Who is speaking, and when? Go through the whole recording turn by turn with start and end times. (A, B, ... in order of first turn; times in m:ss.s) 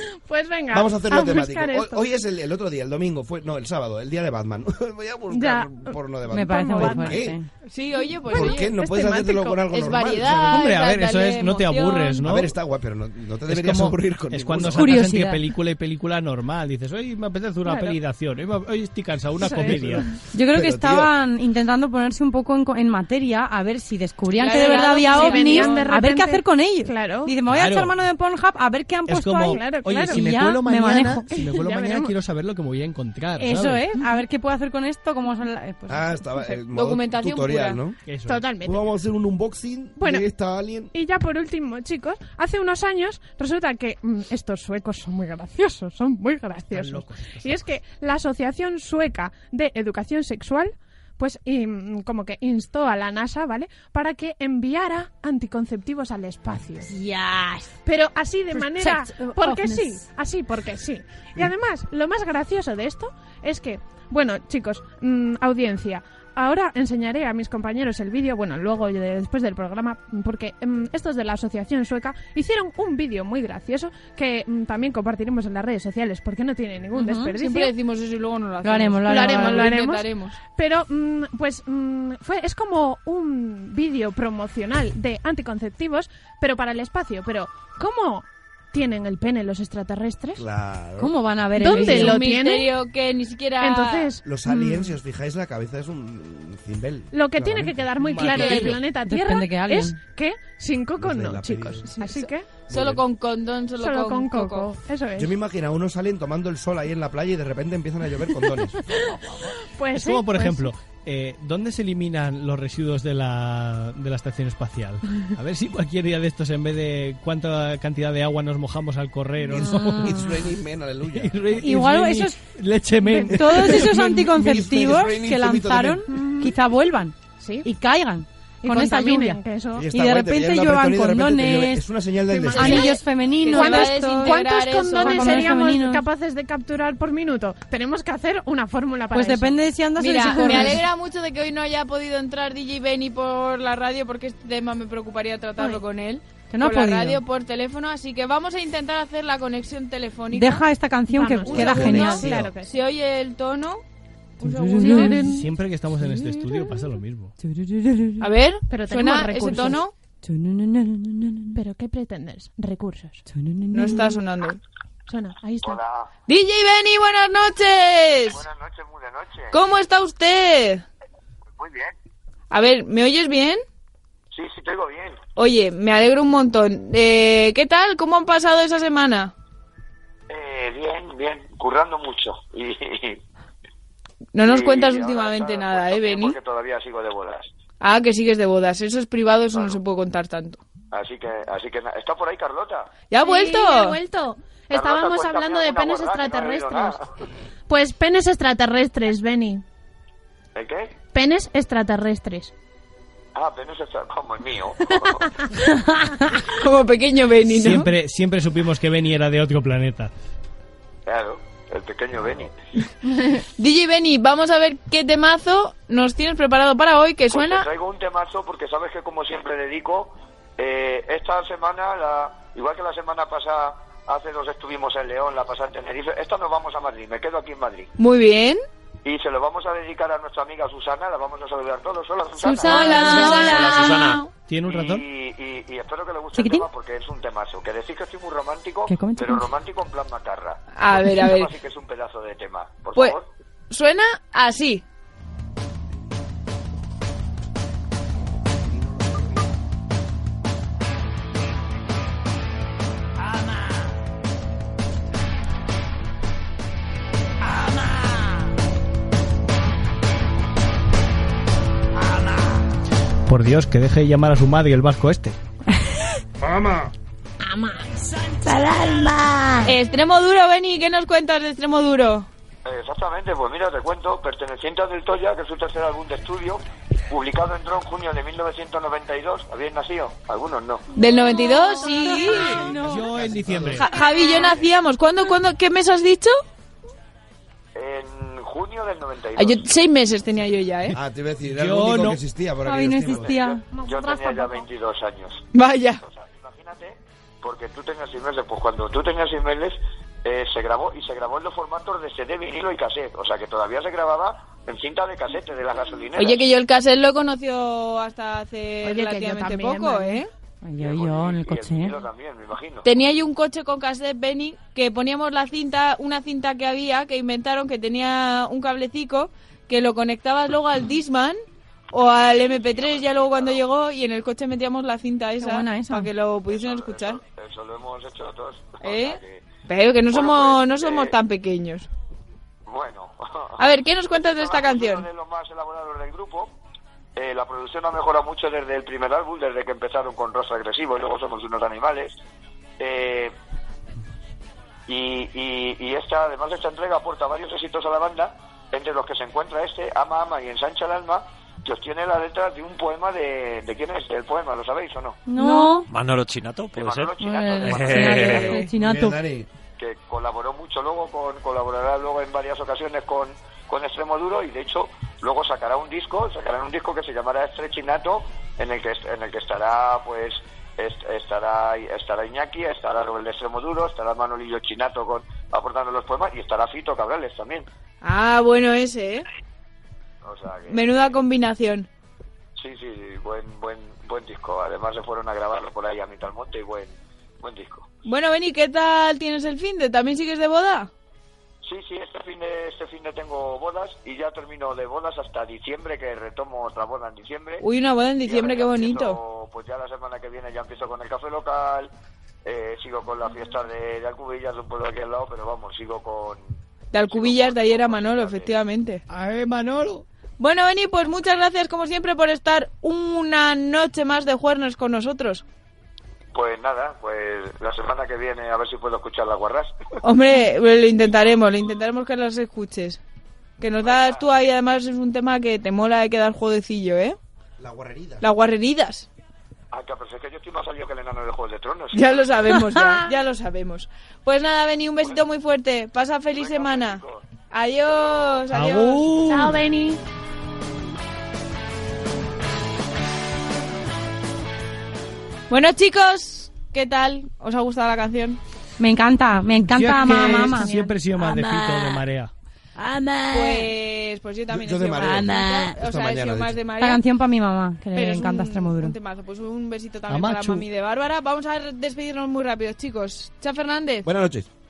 0:00.1-0:02.1 A
0:00.7-0:07.4 B
0:05.3-0:07.2 A
0:06.3-0:07.5 C
0:07.6-0:12.2 D
0:08.3-0:10.7 B
0:10.4-0:12.5 E
0:12.2-0:14.9 B
0:13.5-0:20.1 E
0:14.7-0:15.5 C
0:17.6-0:18.0 A
0:19.4-0:20.0 A
0:19.8-0:21.1 B
0:20.3-0:31.5 C
0:24.3-0:25.9 D
0:25.1-0:27.3 A
0:27.5-0:28.0 E
0:29.1-0:33.8 E
0:29.5-0:30.2 A
0:31.3-0:32.1 A
0:33.4-0:36.4 C
0:35.9-0:38.0 B
0:36.7-0:37.8 D
0:38.0-0:38.4 E
0:38.2-0:38.8 A
0:38.6-0:40.9 B
0:40.0-0:40.2 A
0:40.9-0:56.9 A
0:46.7-0:47.5 E
0:56.8-0:57.8 C
0:57.8-1:17.7 A
0:58.5-1:00.0 C
1:16.9-1:17.3 C
1:17.3-1:20.4 D
1:18.6-1:19.8 C
1:19.0-1:30.4 A
1:30.4-1:31.1 B
1:31.0-1:32.3 C
1:31.6-1:32.7 A
1:31.6-1:34.1 D
1:33.6-1:34.2 A
1:34.2-1:37.9 B
1:34.4-1:34.9 C
1:37.1-1:42.5 A
1:38.0-1:38.9 E
1:38.3-1:38.7 D
1:38.8-1:40.0 C
1:41.0-1:41.9 B
1:41.8-1:44.7 D
1:42.7-1:43.0 B
1:43.8-1:45.4 A
1:45.2-1:48.8 B
1:48.8-1:50.7 A
1:49.9-2:00.3 E
1:59.5-2:01.6 B
1:59.5-2:00.4 C
2:01.1-2:05.0 E
2:01.6-2:02.4 C
2:03.0-2:11.8 C
2:03.3-2:06.0 B
2:06.1-2:06.5 A
2:07.4-2:07.7 A
2:08.6-2:09.9 A
2:09.8-2:12.8 B
2:12.4-2:19.6 A
2:12.5-2:15.6 D
2:12.5-2:16.0 C
2:19.1-2:20.8 C
2:20.0-2:30.6 D
2:20.4-2:20.8 A
2:25.6-2:25.8 A
2:26.5-2:27.2 C
2:30.3-2:32.4 C
2:31.1-2:32.7 A
2:31.5-2:33.8 D
2:34.4-2:35.2 D
2:34.4-2:35.4 C
2:34.8-2:35.5 A
2:35.2-2:37.3 E
2:36.0-2:36.9 C
2:37.4-2:38.3 C
2:38.2-2:39.9 D
2:38.7-2:39.8 A
2:40.2-2:41.6 C
2:41.5-2:43.2 A
2:43.3-2:44.2 C
2:43.7-2:44.6 D
2:45.1-2:45.8 A
2:45.6-2:46.1 F
2:46.3-2:48.4 D
2:48.3-2:49.6 F
2:49.5-2:50.8 D
2:51.6-2:51.9 F
2:52.5-2:53.6 D
2:54.3-2:55.2 F
2:55.4-2:59.3 D
3:00.3-3:03.2 F
3:04.3-3:06.4 D
3:04.4-3:07.5 F
3:07.8-3:10.6 D
3:09.5-3:09.8 F
3:10.9-3:13.0 F
3:13.1-3:14.0 D
3:13.2-3:17.0 A
3:14.7-3:17.0 F
3:17.7-3:19.6 A
3:20.5-3:20.9 F
3:21.1-3:22.5 A
3:23.3-3:25.3 F
3:26.4-3:27.9 D
3:27.5-3:30.1 E
3:31.0-3:32.5 F
3:33.4-3:37.7 D
3:37.3-3:47.9 F
3:48.0-3:48.6 D
3:49.0-3:54.0 F
3:52.4-3:54.3 D
3:52.7-3:53.7 C
3:52.9-3:54.1 G
3:54.5-3:55.0 E
3:54.6-4:03.3 F
3:56.3-3:56.7 C
3:58.9-3:59.5 C
4:00.7-4:01.5 D
4:03.7-4:04.8 D
4:23.3-4:25.4 E
4:26.4-4:26.9 B
4:27.4-4:27.9 A
4:28.5-4:29.6 C
4:29.6-4:32.3 D
4:32.6-4:40.9 F
4:40.9-4:42.7 D
4:41.2-4:43.2 C
4:42.5-4:43.8 B
4:42.8-4:43.9 E
4:43.7-4:46.3 D
4:44.2-4:44.6 F
4:47.7-4:49.6 F
4:49.4-4:51.0 D
4:50.9-4:53.3 B
4:51.5-4:52.2 E
4:52.6-4:53.6 C
4:53.2-4:55.4 F
4:53.7-4:54.7 A
4:55.5-4:56.0 D
4:56.0-5:06.4 F
5:06.1-5:10.3 D
5:08.8-5:10.2 A
5:10.6-5:12.0 C
5:10.8-5:12.9 F
5:12.8-5:21.4 D
5:21.9-5:27.2 D
5:22.3-5:23.6 F
5:25.4-5:26.1 C
5:26.5-5:29.4 F
5:28.8-5:31.9 D
5:30.1-5:31.1 F
5:32.7-5:36.5 F
5:33.6-5:35.1 D
5:37.2-5:42.1 F
5:42.8-5:43.3 F
5:44.9-5:55.2 F
5:55.3-5:55.9 C
5:55.9-5:58.5 G
5:56.7-5:58.6 F
5:57.2-5:59.2 C
5:58.6-5:59.5 B
5:59.8-6:17.6 F
6:18.0-6:19.2 D
6:20.2-6:21.1 F
6:20.7-6:21.9 D
6:22.6-6:27.9 F
6:28.0-6:30.9 D
6:31.6-6:37.6 F
6:37.6-6:39.2 D
6:38.2-6:41.9 F
6:42.4-6:48.6 F
6:46.9-6:49.0 D
6:49.1-6:50.0 E
6:50.4-6:55.4 D
6:56.3-6:59.7 F
7:00.0-7:03.0 D
7:03.6-7:07.2 D
7:03.8-7:04.2 F
7:07.6-7:08.2 B
7:08.2-7:09.1 D
7:09.7-7:12.3 F
7:11.9-7:19.3 D
7:15.0-7:15.3 F
7:16.3-7:17.2 F
7:17.9-7:18.4 F
7:18.5-7:19.6 E
7:19.2-7:20.0 A
7:25.5-7:28.4 D
7:28.8-7:30.7 C
7:29.7-7:32.3 E
7:30.2-7:31.1 A
7:32.8-7:33.6 C
7:33.3-7:37.0 D
7:34.5-7:36.6 B
7:36.8-7:38.9 C
7:37.9-7:44.1 D
7:40.1-7:40.6 E
7:44.0-7:44.5 B